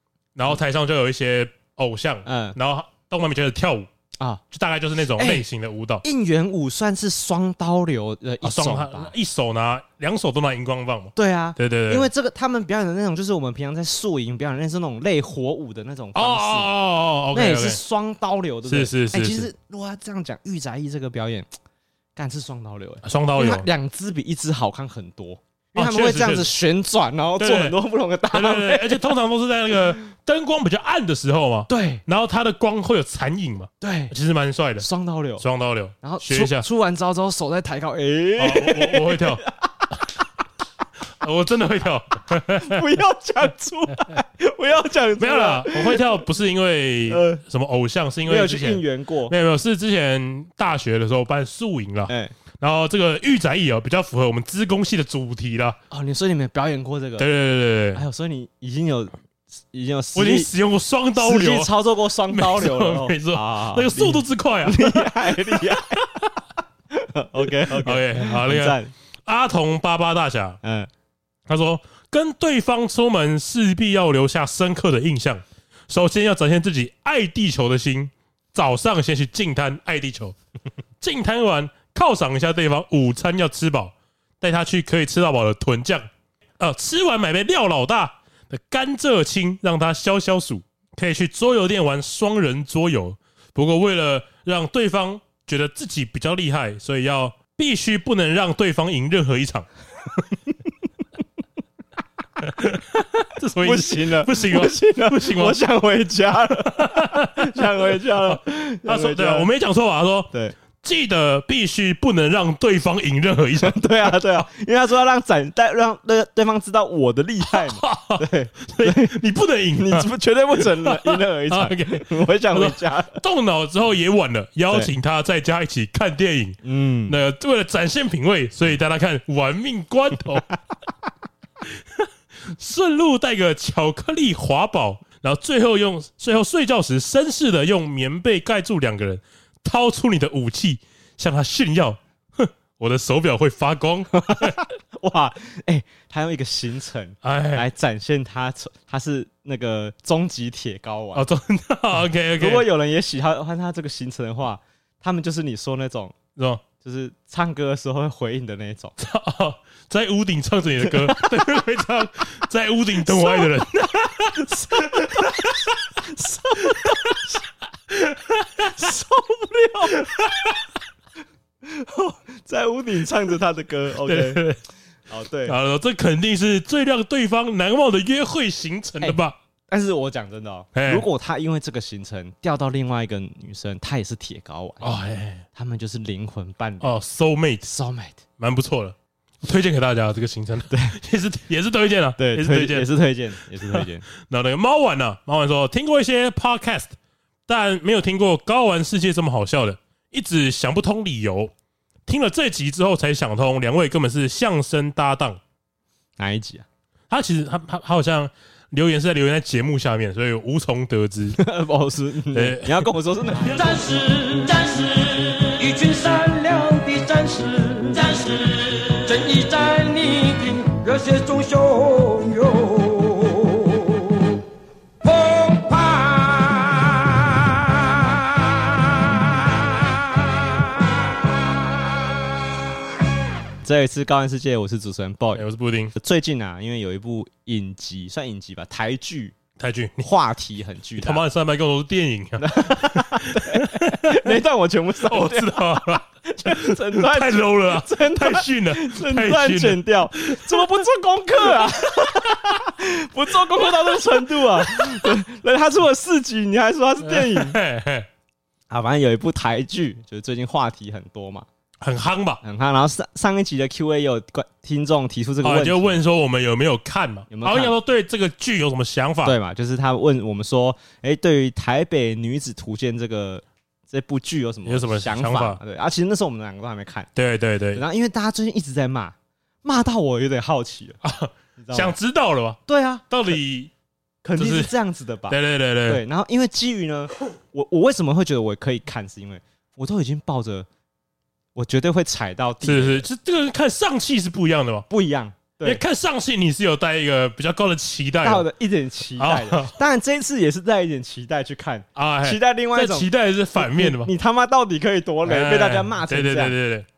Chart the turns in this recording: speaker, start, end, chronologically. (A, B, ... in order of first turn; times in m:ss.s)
0:00.4-0:03.9 A
0:02.2-0:02.6 B
0:04.5-0:06.0 A
0:05.2-0:05.4 B
0:06.0-0:09.1 B
0:08.4-0:12.1 A
0:11.2-0:16.7 B
0:16.1-0:17.8 A
0:17.3-0:21.5 B
0:18.7-0:19.5 A
0:22.2-0:29.1 B
0:23.0-0:23.7 A
0:25.8-0:26.5 A
0:27.4-0:27.8 A
0:28.3-0:34.9 A
0:31.7-0:32.0 B
0:33.8-0:34.2 B
0:34.8-0:35.4 B
0:35.4-0:36.7 A
0:36.0-0:39.9 B
0:38.4-0:40.0 A
0:41.2-0:43.0 A
0:42.6-0:46.2 B
0:45.2-0:55.8 A
0:47.1-0:47.4 B
0:48.3-0:49.3 B
0:52.1-0:52.3 B
0:55.9-0:57.3 B
0:57.2-0:58.0 A
0:57.9-0:59.1 B
0:59.7-1:00.5 B
1:00.2-1:01.7 A
1:01.2-1:06.1 B
1:02.3-1:06.3 A
1:06.9-1:08.9 B
1:07.7-1:10.6 A
1:10.6-1:10.9 B
1:11.5-1:20.4 A
1:21.0-1:26.1 A
1:26.6-1:39.7 A
1:42.4-1:45.6 A
1:43.6-1:49.5 B
1:46.7-1:53.8 A
1:53.6-1:59.2 B
1:57.5-2:10.5 A
1:59.8-2:03.2 B
2:06.6-2:07.2 B
2:11.7-2:24.6 A
2:24.2-2:31.3 B
2:27.2-2:27.7 A
2:31.1-2:32.7 A
2:32.4-2:36.2 B
2:36.4-2:36.6 A
2:36.8-2:39.0 B
2:39.0-2:45.7 A
2:40.8-2:41.6 B
2:43.1-2:43.5 B
2:44.4-2:47.4 B
2:46.8-2:47.2 A
2:47.9-2:48.9 A
2:48.8-2:50.6 B
2:49.9-2:50.6 A
2:51.6-2:54.4 B
2:54.0-2:54.6 A
2:55.1-2:55.6 B
2:55.5-2:59.4 A
2:59.7-3:04.9 B
3:00.8-3:01.1 A
3:04.8-3:05.4 A
3:05.6-3:06.9 B
3:06.8-3:07.7 A
3:07.7-3:08.2 B
3:08.4-3:12.9 A
3:10.7-3:11.0 B
3:12.2-3:14.0 B
3:13.7-3:16.9 A
3:17.5-3:21.5 A
3:22.1-3:25.4 A
3:26.2-3:26.7 B
3:27.1-3:31.4 A
3:31.4-3:33.7 B
3:32.3-3:33.6 A
3:33.5-3:44.4 C
3:45.0-3:47.6 C
3:53.6-3:59.4 B
3:55.3-3:55.9 A
3:59.6-4:00.1 A
4:00.0-4:01.2 B
4:01.0-4:04.4 A
4:02.4-4:17.6 B
4:05.1-4:10.6 A
4:13.8-4:15.1 A
4:17.0-4:18.1 A
4:18.7-4:21.5 B
4:21.8-4:22.4 A
4:22.4-4:26.0 B
4:25.4-4:29.4 A
4:27.3-4:27.8 B
4:29.2-4:37.1 B
4:34.7-4:35.6 A
4:37.2-4:37.8 A
4:37.7-4:41.0 B
4:41.0-4:42.6 A
4:41.6-4:42.0 B
4:42.7-4:43.0 B
4:43.1-4:43.7 A
4:44.2-4:50.7 B
4:44.4-4:44.7 A
4:45.3-4:46.0 A
4:51.6-4:53.1 B
4:52.6-4:54.9 A
4:54.9-4:55.8 B
4:55.6-4:58.5 A
4:58.2-5:06.6 B
4:59.2-4:59.8 A
5:02.0-5:04.1 A
5:05.2-5:06.9 A